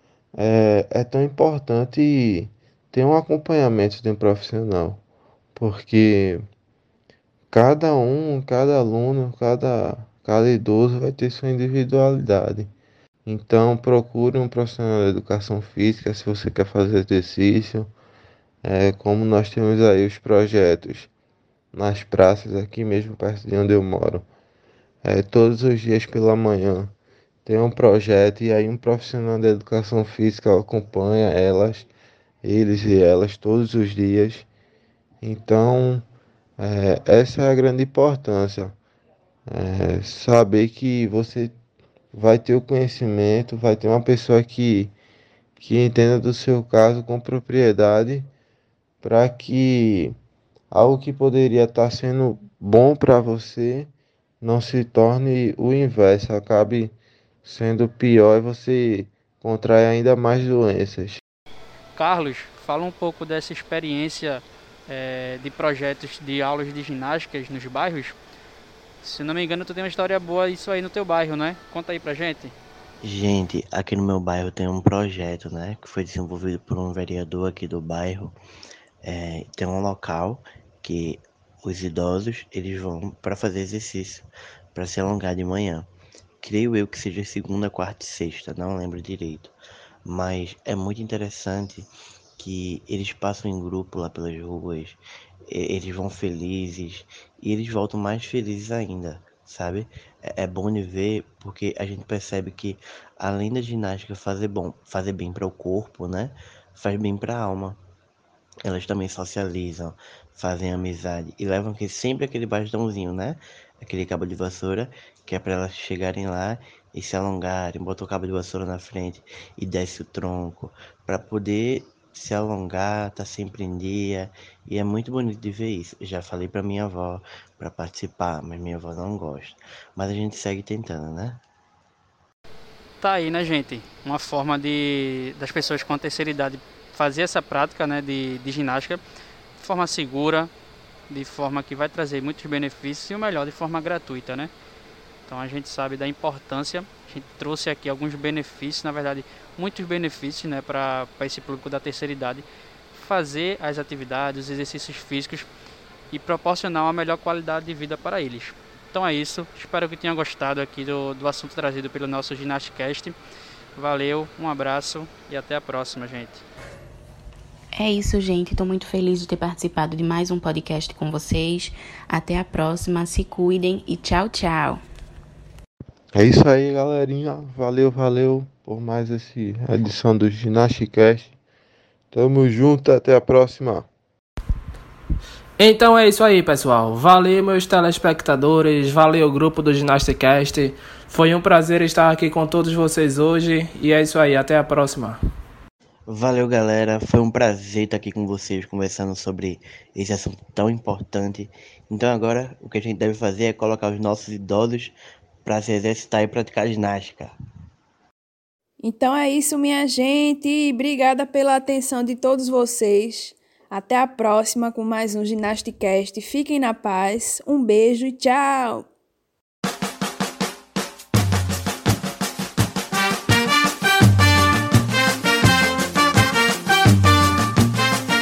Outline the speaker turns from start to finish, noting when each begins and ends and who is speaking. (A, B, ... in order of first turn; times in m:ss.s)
0:00.4-0:05.0 A
0:05.5-0:06.4 A
0:07.5-0:12.7 A
0:13.2-0:17.9 A
0:18.6-0:21.1 A
0:21.7-0:24.2 A
0:25.0-0:26.9 A
0:27.4-0:31.9 A
0:32.4-0:34.5 A
0:35.2-0:36.0 A
0:36.6-0:38.8 A
0:39.5-0:41.5 A
0:42.1-0:44.9 A
0:45.6-0:48.3 A
0:49.0-0:50.1 A
0:50.7-0:56.9 A
0:57.4-1:01.2 A
1:01.9-1:08.1 B
1:09.0-1:12.5 B
1:13.0-1:18.4 C
1:19.0-1:25.9 C
1:26.4-1:29.5 C
1:30.0-1:47.8 C
1:48.6-2:11.4 C
2:13.0-2:19.0 B
2:19.6-2:20.5 B
2:21.1-2:24.5 B
2:25.3-2:35.5 B
2:36.1-2:43.2 B
2:43.8-2:46.4 B
2:47.7-2:54.8 D
2:56.1-3:01.3 A
3:02.1-3:03.9 A
3:05.6-3:15.2 E
3:16.1-3:27.3 C
3:28.8-3:38.9 F